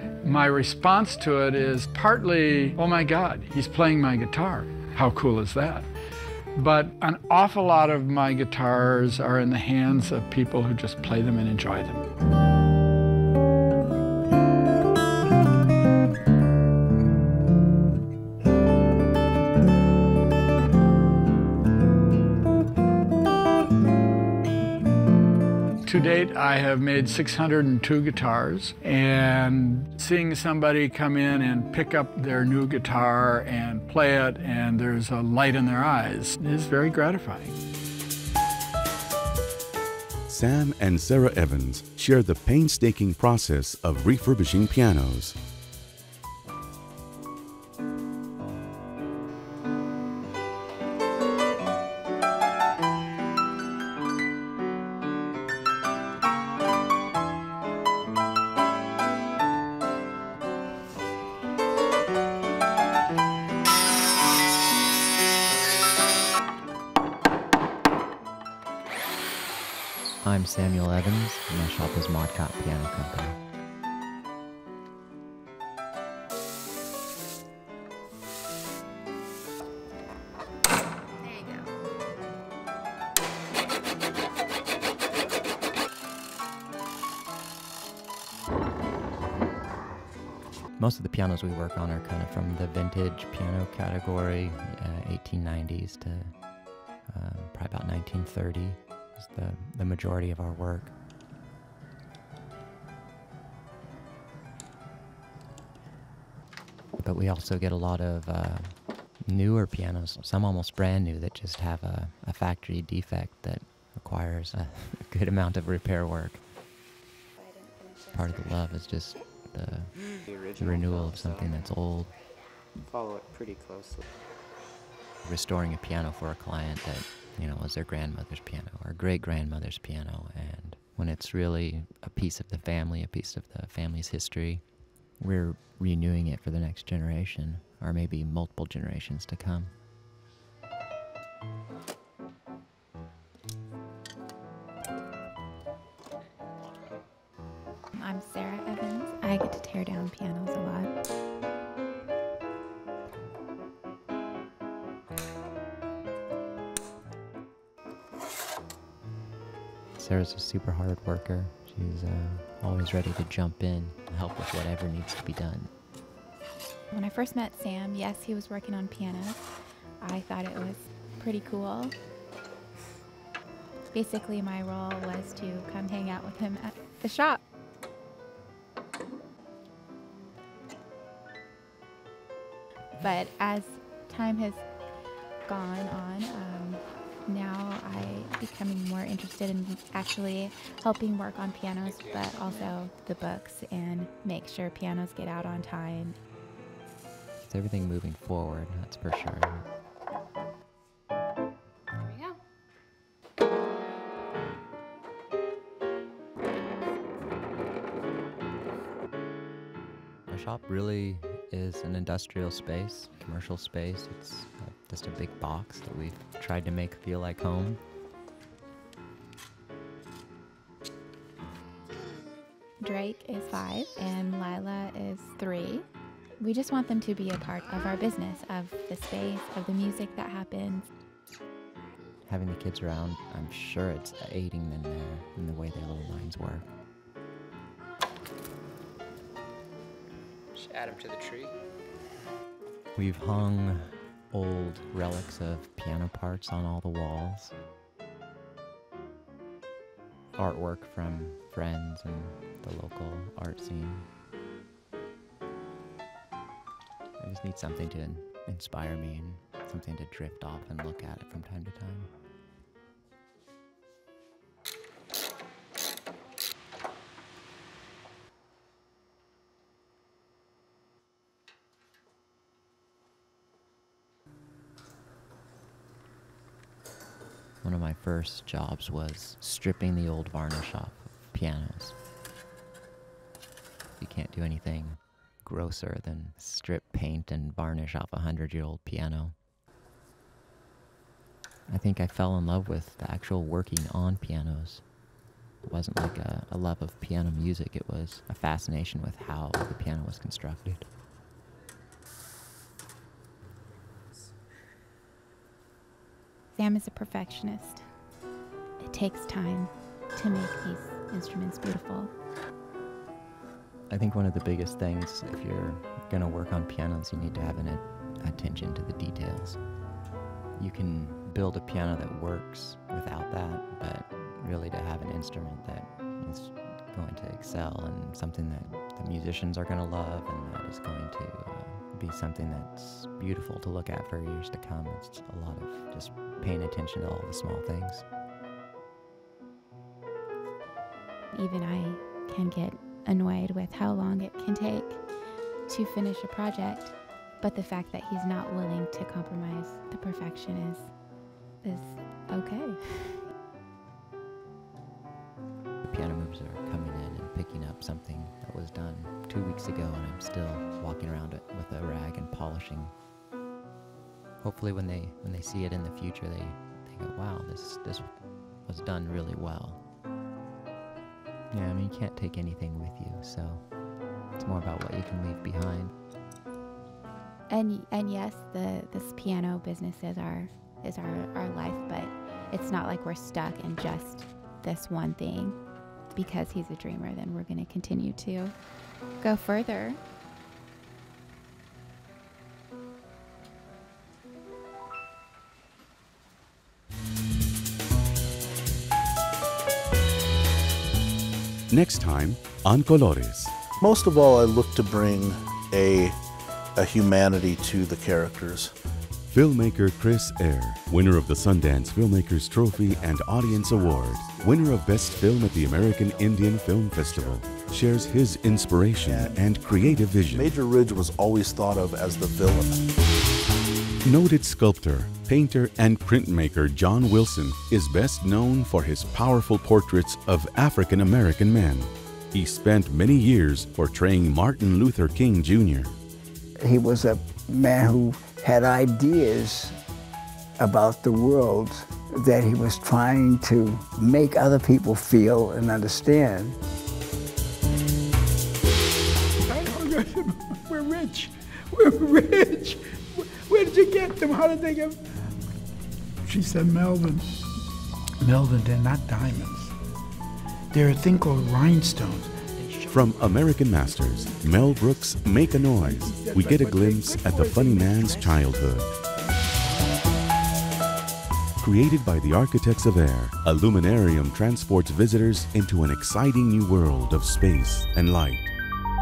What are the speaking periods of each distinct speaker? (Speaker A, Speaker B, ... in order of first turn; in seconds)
Speaker A: 0.2-5.8, 6.5-12.0, 25.8-37.6
Speaker B: 40.3-45.3, 401.7-403.5, 409.3-420.5, 424.0-435.9, 462.9-468.9, 471.6-478.5
Speaker C: 70.2-73.4, 90.8-96.3, 97.0-100.9, 107.0-116.4, 118.1-119.9, 120.6-122.1, 125.2-134.6, 135.2-139.7, 159.9-165.7, 197.4-199.6, 210.3-217.8, 232.2-236.7, 242.9-247.5, 250.3-254.1, 257.2-262.1, 277.6-281.9, 284.0-289.3, 291.7-294.8, 295.6-300.9, 313.9-319.6, 320.6-338.0, 355.8-362.9, 364.4-369.8, 371.5-373.6, 374.3-375.9
Speaker D: 117.4-118.2, 147.9-150.9, 166.9-171.9, 173.9-177.4, 183.0-184.6, 185.4-196.2, 222.8-225.8, 226.4-230.8, 306.5-307.8, 308.8-312.1, 341.3-345.0, 345.7-350.9, 351.6-353.2, 377.5-385.6, 386.1-388.5, 389.2-390.0
Speaker E: 120.3-121.6, 122.9-124.0, 240.5-241.5
Speaker F: 403.8-406.1, 406.7-408.7, 412.8-416.1, 417.1-418.0, 419.0-419.4, 420.3-422.8
Speaker G: 436.6-439.8, 440.6-446.6
Speaker H: 449.5-455.0, 456.2-457.2, 458.2-459.7, 460.7-468.8